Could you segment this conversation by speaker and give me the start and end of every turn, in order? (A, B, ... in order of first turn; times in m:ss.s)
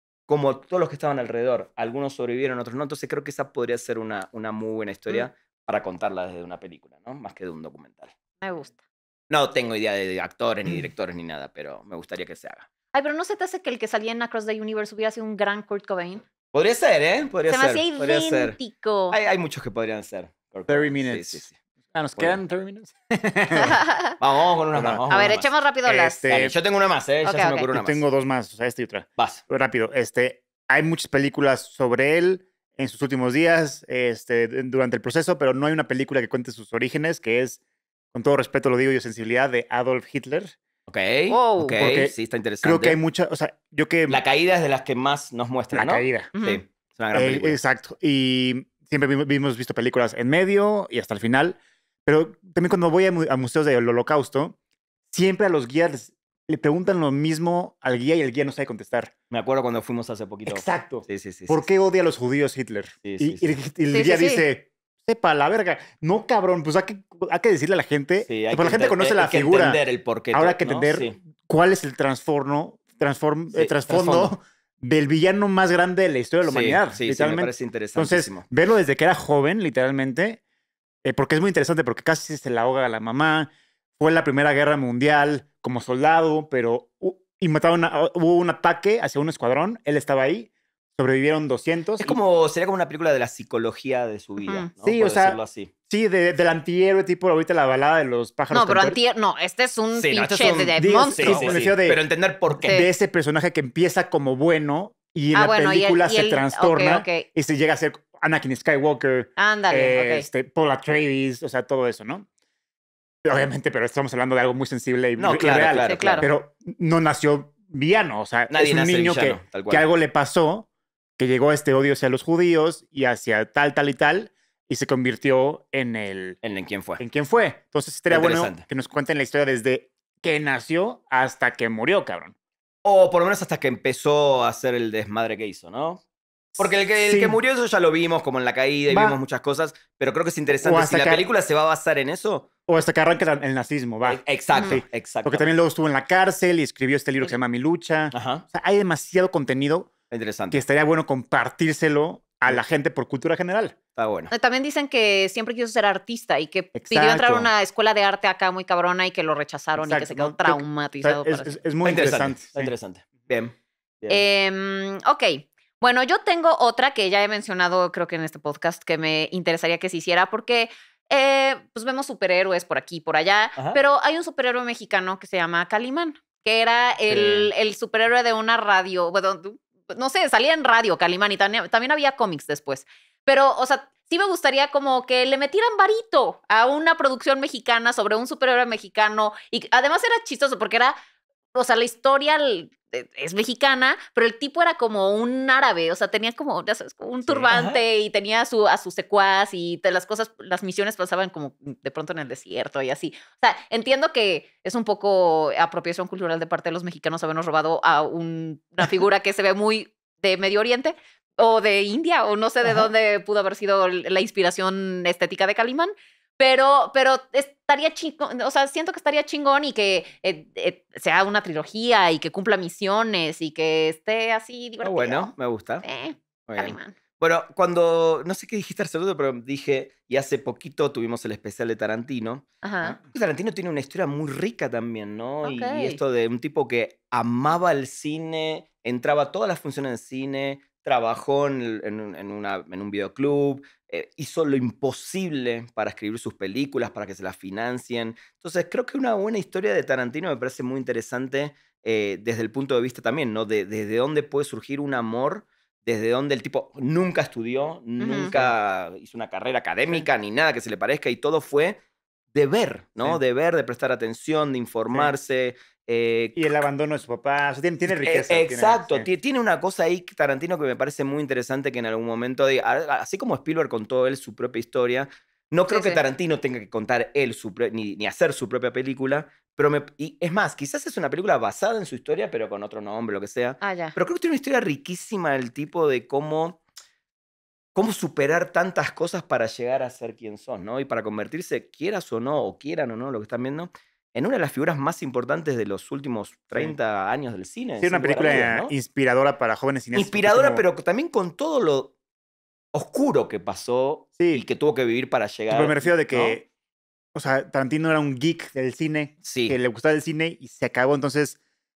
0:00.3-0:08.1 A
0:08.4-0:08.8 B
0:09.3-0:12.7 A
0:12.9-0:16.2 B
0:16.5-0:18.6 A
0:17.5-0:19.2 B
0:19.1-0:21.6 A
0:20.7-0:23.8 C
0:23.5-0:24.2 B
0:24.2-0:25.5 A
0:24.7-0:25.0 C
0:25.1-0:26.3 B
0:25.8-0:26.5 C
0:26.2-0:28.0 A
0:27.2-0:27.7 B
0:27.7-0:37.6 C
0:29.2-0:29.4 A
0:38.1-0:40.6 C
0:40.9-0:43.0 A
0:41.3-0:41.9 B
0:41.6-0:44.2 C
0:44.1-0:47.6 A
0:45.7-0:46.3 C
0:46.3-0:46.6 B
0:47.1-0:54.6 C
0:55.1-0:59.1 C
0:59.3-1:01.7 A
1:00.5-1:09.8 C
1:03.0-1:03.5 A
1:03.9-1:04.4 B
1:08.2-1:11.2 A
1:10.3-1:20.4 C
1:13.5-1:14.3 A
1:16.4-1:18.4 A
1:21.0-1:32.2 C
1:32.0-1:35.7 A
1:34.4-1:34.7 B
1:34.8-1:39.0 C
1:38.5-1:41.6 B
1:39.9-1:42.9 A
1:40.7-1:42.0 C
1:42.6-1:52.3 C
1:45.3-1:47.3 B
1:49.4-1:50.3 B
1:53.2-2:00.7 C
1:55.2-1:56.3 A
1:55.8-1:56.2 B
1:58.5-1:59.8 A
2:01.2-2:06.4 C
2:06.4-2:07.0 A
2:07.0-2:12.3 C
2:08.1-2:08.6 A
2:12.8-2:16.0 A
2:16.6-2:17.4 C
2:16.6-2:22.5 A
2:18.9-2:19.2 C
2:20.6-2:21.2 C
2:22.7-2:29.9 C
2:24.0-2:25.5 A
2:24.5-2:24.8 B
2:28.1-2:28.4 A
2:30.1-2:30.6 A
2:30.5-2:33.8 C
2:34.0-2:34.3 A
2:34.3-2:41.6 B
2:36.7-2:37.5 C
2:39.8-2:42.7 C
2:41.8-2:44.2 A
2:44.1-3:10.9 B
2:57.1-2:57.5 A
3:11.5-3:45.3 B
3:17.5-3:17.8 A
3:44.8-3:45.8 A
3:45.8-3:47.0 B
3:46.5-3:52.5 A
3:52.6-3:53.0 B
3:53.0-4:21.8 A
3:55.4-3:56.0 B
4:18.0-4:18.3 B
4:18.3-4:18.5 C
4:22.3-4:26.4 A
4:26.3-4:29.1 C
4:27.8-4:46.6 A
4:35.7-4:36.0 B
4:43.6-4:44.0 B
4:47.7-4:58.7 A
4:57.8-5:00.6 C
4:59.9-5:01.9 A
5:02.7-5:06.4 A
5:04.2-5:04.4 C
5:05.5-5:06.4 C
5:07.1-5:11.4 C
5:09.2-5:09.6 A